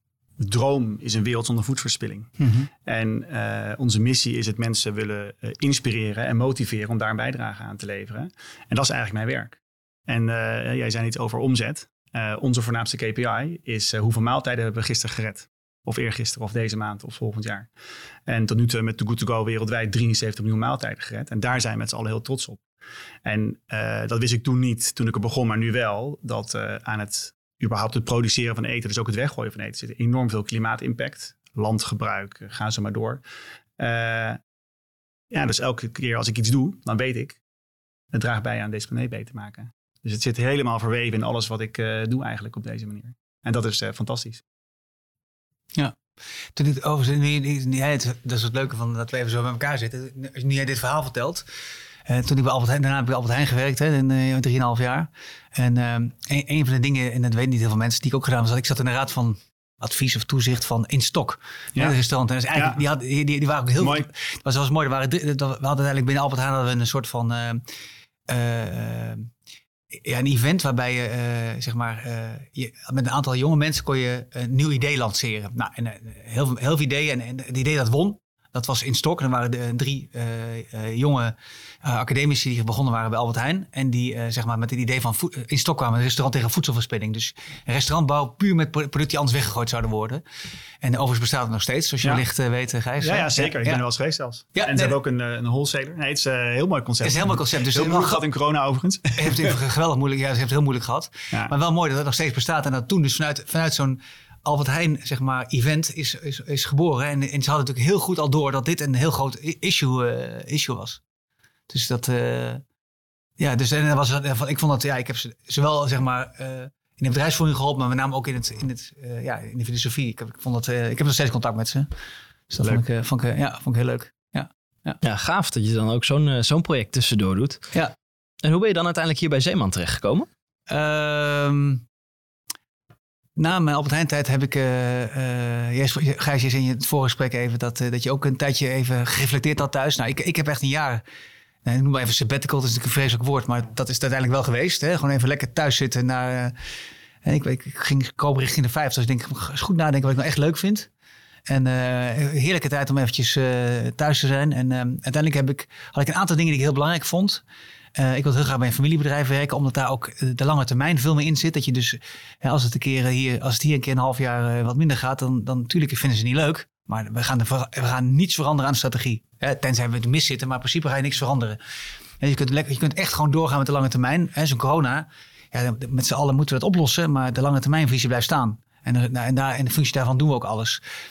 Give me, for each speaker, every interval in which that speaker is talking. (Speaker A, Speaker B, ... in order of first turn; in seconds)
Speaker A: 0.4-17.7, 18.3-22.6, 23.2-33.2, 33.8-34.4, 35.3-37.4, 38.1-44.4, 62.5-62.8, 63.8-64.1, 93.0-99.5
Speaker B: 2.4-2.7, 46.5-51.5, 52.0-67.6, 68.3-69.3, 69.9-90.2, 90.8-93.8, 94.5-95.0, 97.0-98.2, 99.2-111.0, 111.7-112.6, 113.4-121.9, 122.5-125.0, 130.7-131.8, 133.4-141.0, 141.6-146.5, 147.2-150.9, 151.5-157.4, 157.9-171.6, 172.2-180.8
Speaker C: 125.0-127.7, 128.4-130.3